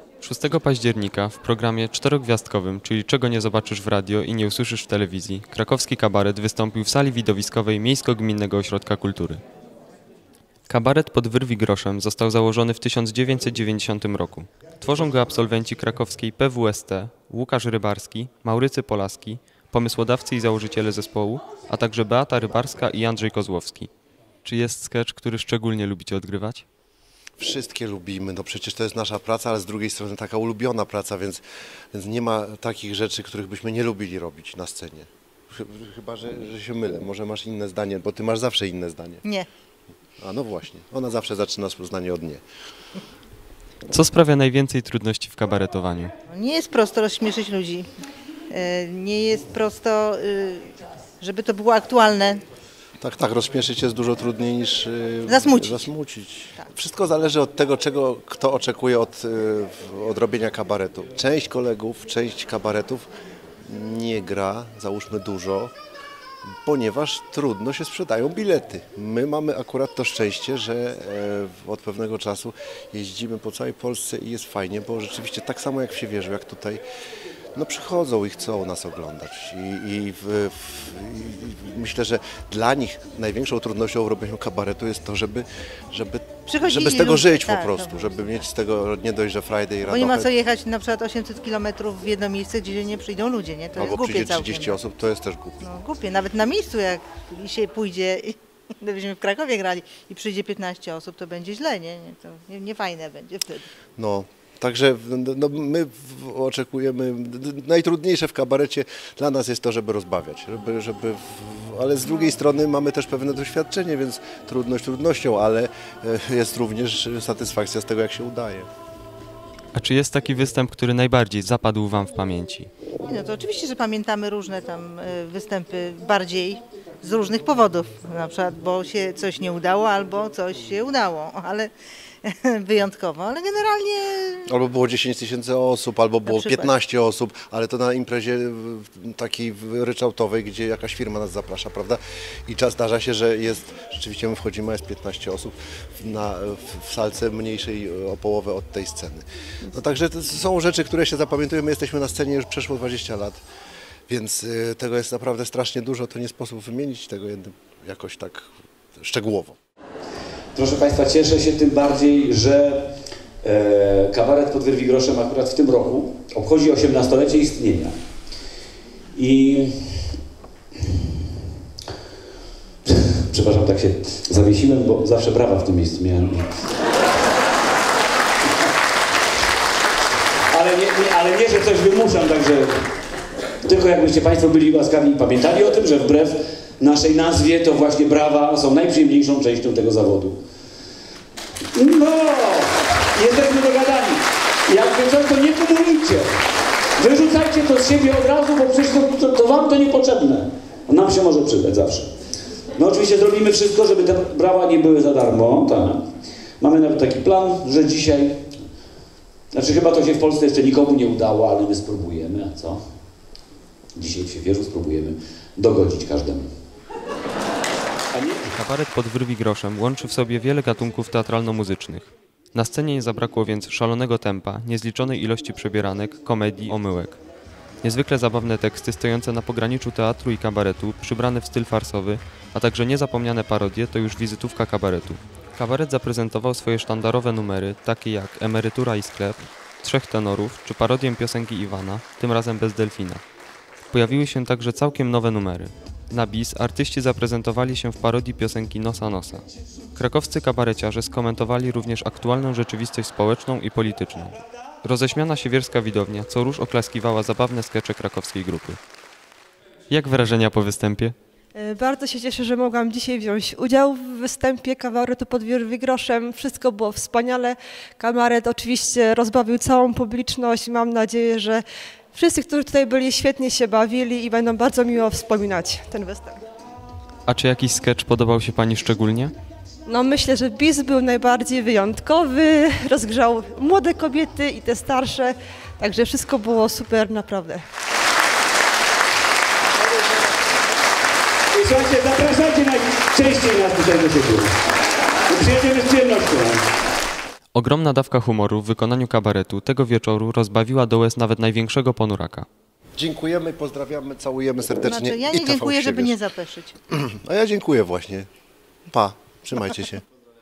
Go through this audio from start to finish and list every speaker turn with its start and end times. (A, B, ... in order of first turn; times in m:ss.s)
0:00.2-0:09.4 A
0:10.7-0:23.9 A
0:24.4-0:26.6 A
0:27.4-0:31.4 B
0:31.9-0:39.2 B
0:40.2-0:42.4 B
0:43.9-0:46.1 A
0:46.3-0:47.9 C
0:48.5-0:52.4 C
0:53.0-1:03.1 B
0:55.3-0:55.9 C
1:03.6-1:05.7 B
1:06.6-1:16.8 B
1:17.6-1:30.3 B
1:26.5-1:28.2 C
1:29.9-1:34.8 C
1:33.8-1:35.6 B
1:35.6-1:43.7 C
1:44.0-1:58.7 B
1:59.7-2:02.7 A
2:03.0-2:11.7 C
2:12.2-2:14.4 C
2:14.5-2:33.4 B
2:16.2-2:16.7 C
2:34.1-2:39.6 B
2:40.5-2:47.9 D
2:49.2-2:50.1 D
2:52.9-2:56.6 D
3:00.5-3:02.9 D
3:03.6-3:10.4 D
3:11.7-3:16.3 D
3:17.0-3:22.1 D
3:22.7-3:26.0 D
3:26.6-3:28.5 D
3:29.5-3:32.8 D
3:33.9-3:36.5 D
3:38.1-3:38.5 D
3:38.6-3:47.2 A
3:47.8-4:03.2 A
4:03.9-4:09.4 A
4:10.0-4:18.8 A
4:19.9-4:21.2 A
4:21.6-4:31.6 E
4:32.1-4:36.4 E
4:37.3-4:39.3 A
4:39.9-4:47.6 E
4:54.1-4:54.4 D
4:57.6-5:02.5 A
5:03.0-5:06.2 B
5:04.8-5:06.8 C
5:06.9-5:08.3 B
5:08.9-5:10.0 B